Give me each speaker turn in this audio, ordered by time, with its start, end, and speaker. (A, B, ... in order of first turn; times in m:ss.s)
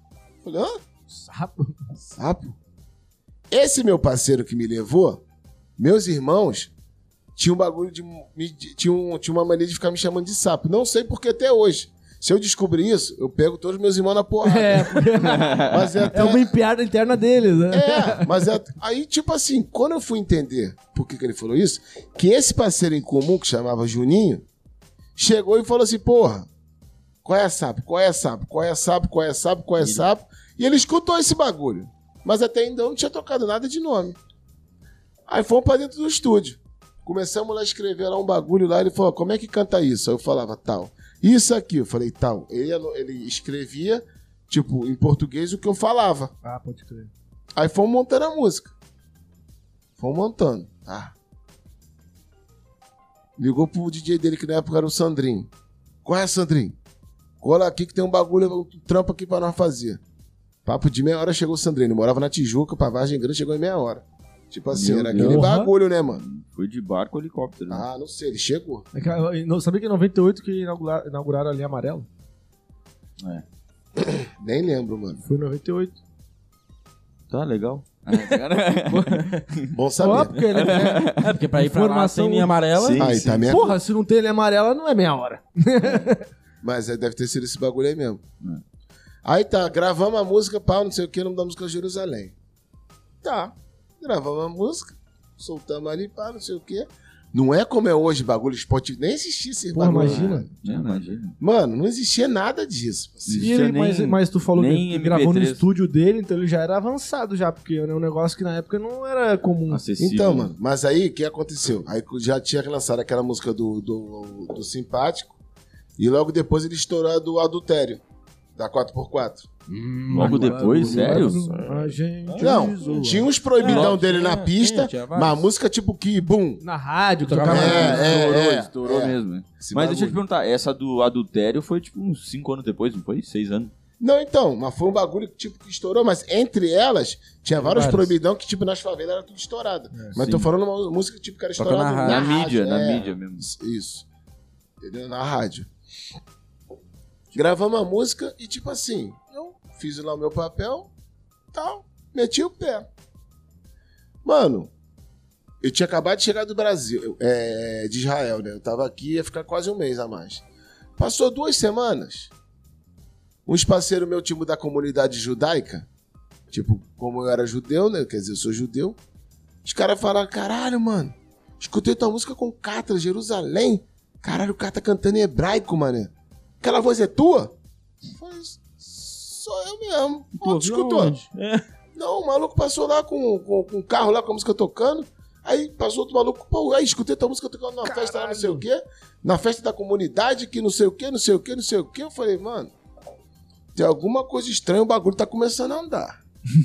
0:00.4-0:00.7 A
0:01.1-0:01.8 B
0:02.1-0:02.6 A
0:03.5-0:05.2 A
0:05.8-0:06.7 A
0:07.4-0:15.1 A
0:14.4-0:18.4 B
0:15.2-0:16.1 C
0:15.7-0:16.5 A
0:17.7-0:24.4 A
0:25.2-0:26.5 A
0:27.2-0:34.2 A
0:35.3-0:46.3 A
0:46.4-0:47.1 B
0:47.6-0:48.7 A
0:50.0-0:51.1 A
0:53.4-0:55.5 A
0:56.0-0:56.8 A
0:57.4-1:00.0 A
1:00.6-1:06.2 A
1:04.7-1:05.5 C
1:05.2-1:05.7 B
1:06.2-1:07.8 C
1:07.7-1:08.8 A
1:08.9-1:12.0 B
1:14.0-1:15.2 A
1:15.2-1:16.0 B
1:17.3-1:21.3 C
1:18.1-1:19.4 D
1:19.7-1:20.4 A
1:20.0-1:22.6 B
1:20.6-1:23.0 D
1:22.8-1:23.6 C
1:23.0-1:23.8 A
1:23.4-1:26.2 B
1:25.8-1:26.1 C
1:26.6-1:28.2 A
1:29.2-1:32.3 A
1:33.2-1:33.5 B
1:34.0-1:40.5 A
1:39.7-1:40.5 B
1:39.9-1:41.4 C
1:40.6-1:41.1 D
1:41.4-1:43.5 A
1:43.2-1:45.6 C
1:43.4-1:49.8 B
1:49.7-1:50.5 C
1:50.0-1:55.4 A
1:56.0-1:58.0 A
1:58.6-1:59.5 A
1:59.7-2:03.3 B
2:00.1-2:01.7 D
2:00.1-2:01.8 C
2:02.3-2:02.7 D
2:02.4-2:06.6 A
2:03.6-2:05.4 D
2:03.6-2:03.9 C
2:06.6-2:08.2 B
2:07.2-2:08.0 D
2:07.5-2:10.2 A
2:07.5-2:13.7 C
2:14.0-2:24.0 A
2:17.7-2:18.0 B
2:20.2-2:20.5 C
2:21.6-2:22.4 D
2:22.0-2:23.4 C
2:24.8-2:25.7 A
2:27.3-2:30.9 A
2:31.5-2:32.9 A
2:34.2-2:34.7 A
2:35.6-2:40.4 A
2:41.0-2:42.3 A
2:43.4-2:45.9 A
2:46.5-2:49.0 A
2:49.6-2:57.5 A
2:58.1-3:01.2 A
3:00.4-3:01.6 D
3:02.0-3:12.7 A
3:07.8-3:08.6 B
3:13.7-3:16.2 A